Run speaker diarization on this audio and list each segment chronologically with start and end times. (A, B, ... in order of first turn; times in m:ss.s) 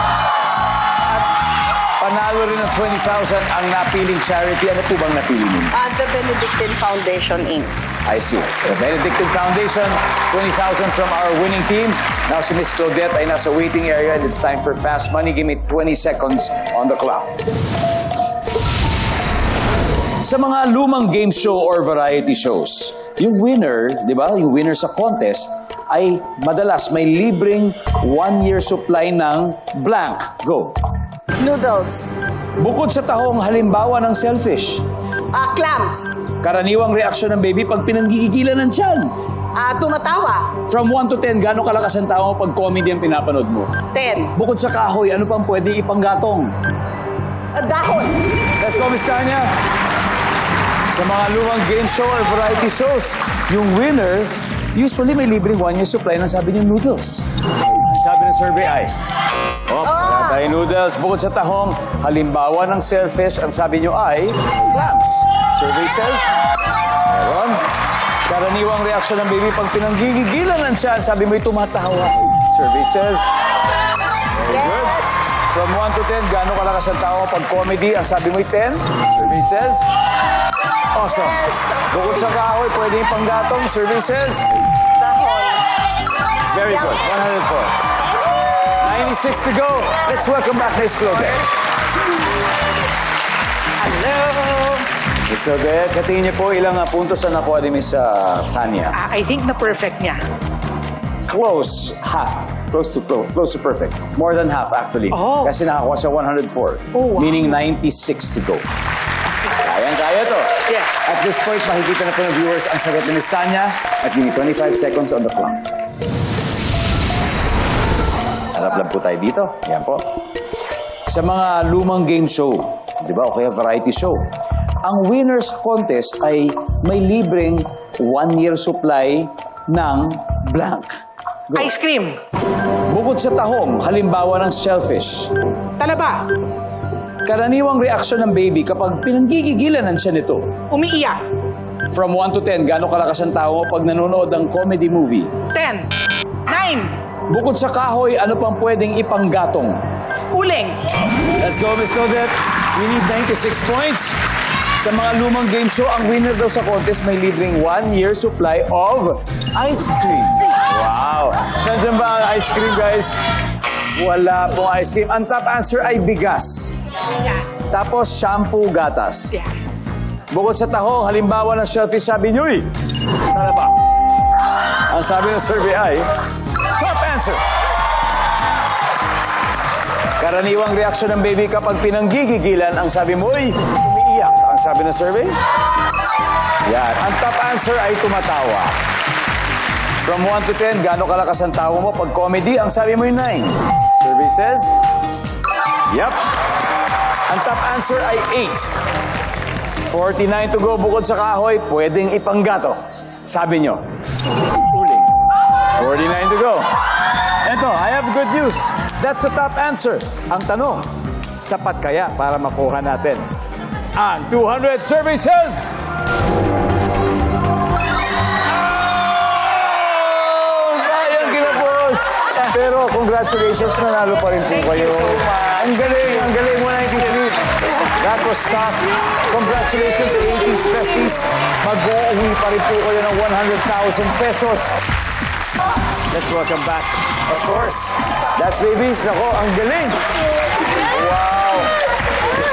0:02.0-0:05.8 A
0:05.7-0:07.8 B
0:08.0-0:17.4 A
0:20.2-0:30.8 A
0:31.4-0:32.2 B
0:32.6-0:34.8 A
0:35.3-0:36.2 B
0:36.4-0:39.1 A
0:39.6-0:40.6 B
0:40.6-0:46.5 A
0:43.9-0:44.3 B
0:47.5-0:48.3 B
0:48.4-0:49.5 A
0:50.9-0:58.9 A
0:59.6-1:06.3 A
0:59.8-1:00.4 B
1:07.0-1:07.6 A
1:08.3-1:13.3 A
1:14.3-1:19.9 A
1:20.9-1:24.5 A
1:25.0-1:25.7 B
1:26.5-1:27.8 A
1:28.7-1:31.4 A
1:33.8-1:34.9 C
1:35.3-1:39.0 A
1:39.0-1:40.2 C
1:41.3-1:48.7 A
1:45.1-1:45.5 C
1:47.0-1:47.4 C
1:49.4-1:55.7 A
1:50.7-1:51.0 C
1:58.5-2:00.1 A
2:01.1-2:04.2 A
2:04.8-2:11.7 A
2:11.6-2:12.2 C
2:12.7-2:15.3 A
2:15.8-2:16.3 C
2:17.2-2:20.6 A
2:20.7-2:21.2 C
2:21.9-2:25.4 A
2:25.5-2:25.9 C
2:26.5-2:27.0 C
2:27.3-2:29.8 A
2:30.3-2:30.8 C
2:31.2-2:34.2 A
2:34.8-2:43.2 A
2:44.0-2:46.8 A
2:47.5-2:49.4 A
2:50.3-2:53.8 A
2:54.9-2:57.4 A
3:00.2-3:05.4 A
3:06.6-3:08.8 A
3:10.0-3:14.8 A
3:15.9-3:16.2 A
3:17.3-3:18.7 A
3:19.8-3:23.8 A
3:24.6-3:25.1 A
3:25.7-3:30.9 A
3:31.4-3:33.3 A
3:34.0-3:35.8 A
3:39.4-3:54.7 A
3:56.1-4:00.1 A
4:00.7-4:01.7 A